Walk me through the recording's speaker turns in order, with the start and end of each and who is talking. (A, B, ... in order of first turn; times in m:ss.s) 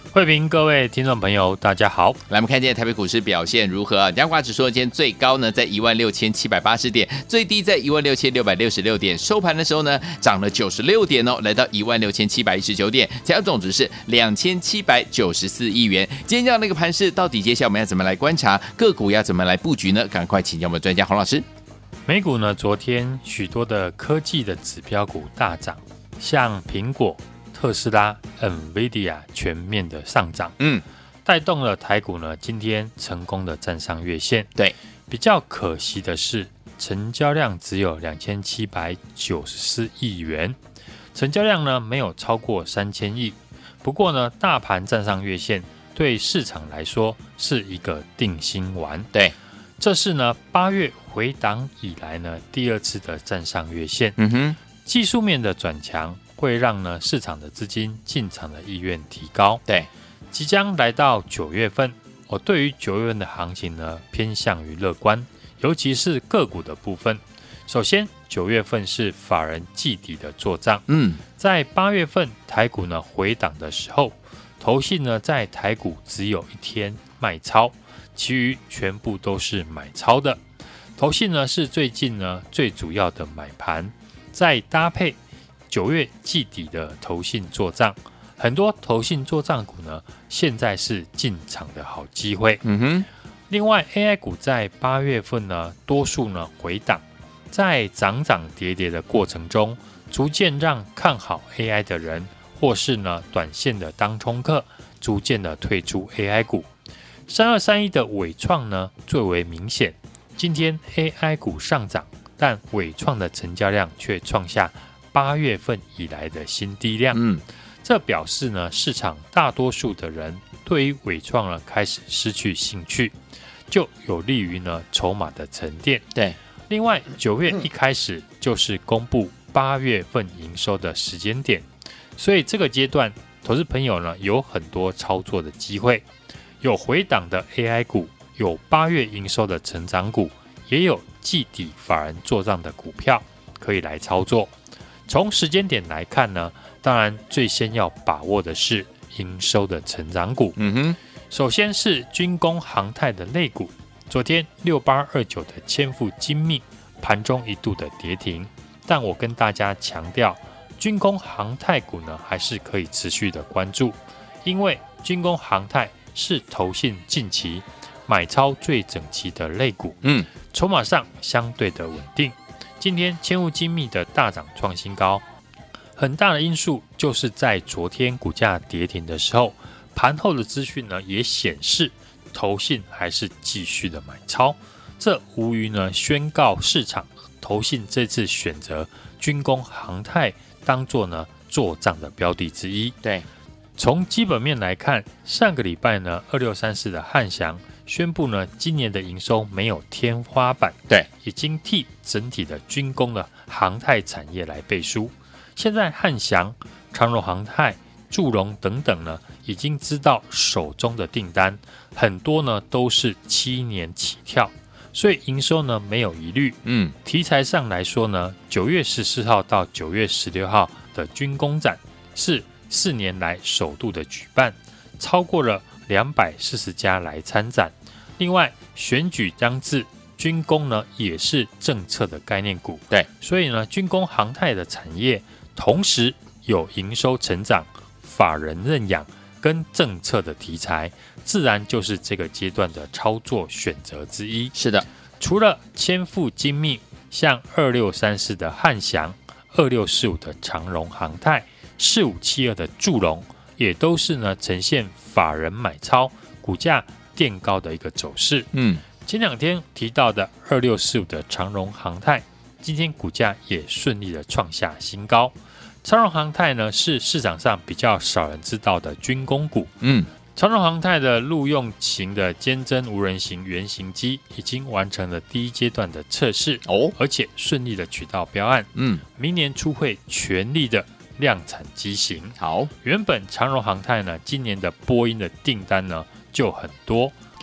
0:00.1-0:02.2 A
0:02.3-0:21.4 B
0:22.1-0:30.6 A
0:31.2-0:34.5 A
0:35.1-0:40.6 A
0:41.1-0:49.1 A
0:49.8-0:54.2 A
0:54.2-0:54.6 B
0:54.8-0:59.6 A
1:00.3-1:20.4 A
1:10.9-1:11.2 B
1:21.0-1:25.2 A
1:25.7-1:32.6 A
1:32.6-1:33.1 B
1:33.5-1:46.7 A
1:47.3-1:57.2 A
1:57.1-1:57.4 B
1:57.8-2:03.2 A
2:03.7-2:06.1 A
2:06.7-2:11.6 A
2:12.2-2:16.0 A
2:16.6-2:24.5 A
2:25.1-2:30.6 A
2:30.6-2:31.0 B
2:31.3-2:55.2 A
2:56.0-3:13.0 A
3:13.8-4:04.5 A
3:36.6-3:37.0 B
4:04.6-4:04.8 B
4:05.2-4:18.5 A
4:18.5-4:18.8 B
4:19.0-4:29.7 A
4:29.8-4:30.1 B
4:30.4-4:47.2 A
4:36.7-4:36.9 B
4:38.8-4:39.0 B
4:42.4-4:42.7 B